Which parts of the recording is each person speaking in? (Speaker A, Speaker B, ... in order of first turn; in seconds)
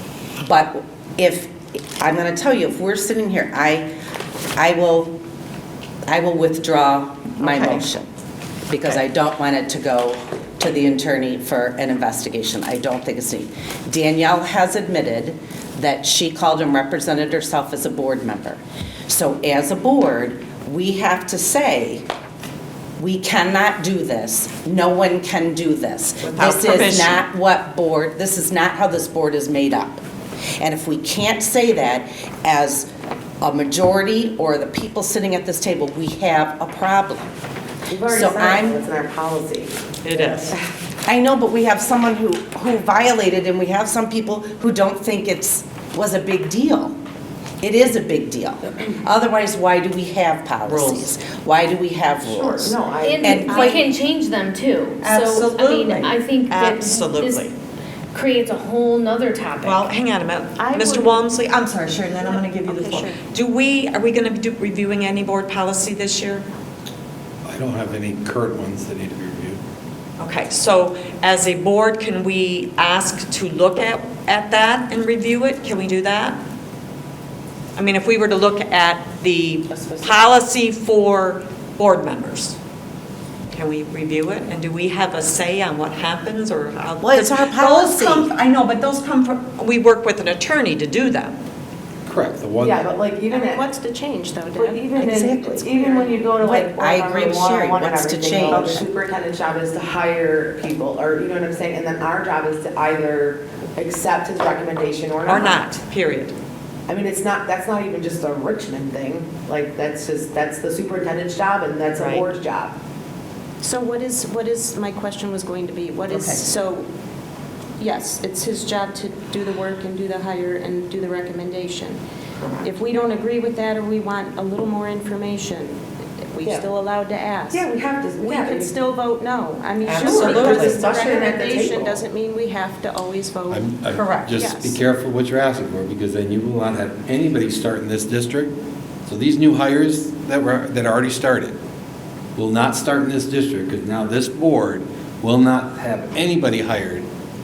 Speaker A: 0.4-3.9, 4.6-5.2, 6.1-8.1, 8.7-22.1, 23.0-30.0, 30.6-32.9, 33.4-37.3, 38.1-38.8, 41.1-47.0, 47.6-53.8, 87.0-88.3, 95.0-95.7, 96.4-98.8
Speaker B: 7.4-7.8, 26.2-27.2, 40.0-40.5, 50.7-51.1, 55.0-57.5, 59.6-66.5, 70.2-76.4, 77.8-82.6, 83.5-91.4, 98.5-98.9, 105.3-106.3, 112.0-112.3, 129.8-131.3, 133.9-134.3
Speaker C: 37.9-40.5, 52.3-53.8, 92.6-93.6, 94.5-105.6, 106.9-112.7, 127.5-128.7, 130.0-131.9
Speaker D: 53.0-57.5, 58.1-59.9
Speaker E: 53.4-53.8, 60.6-61.3, 62.2-63.2, 93.3-96.3, 113.6-116.9, 117.8-122.0, 122.6-125.8, 126.3-127.7, 128.2-134.8
Speaker F: 67.5-69.6, 92.1-92.8, 133.5-138.5, 139.1-141.6, 142.4-147.1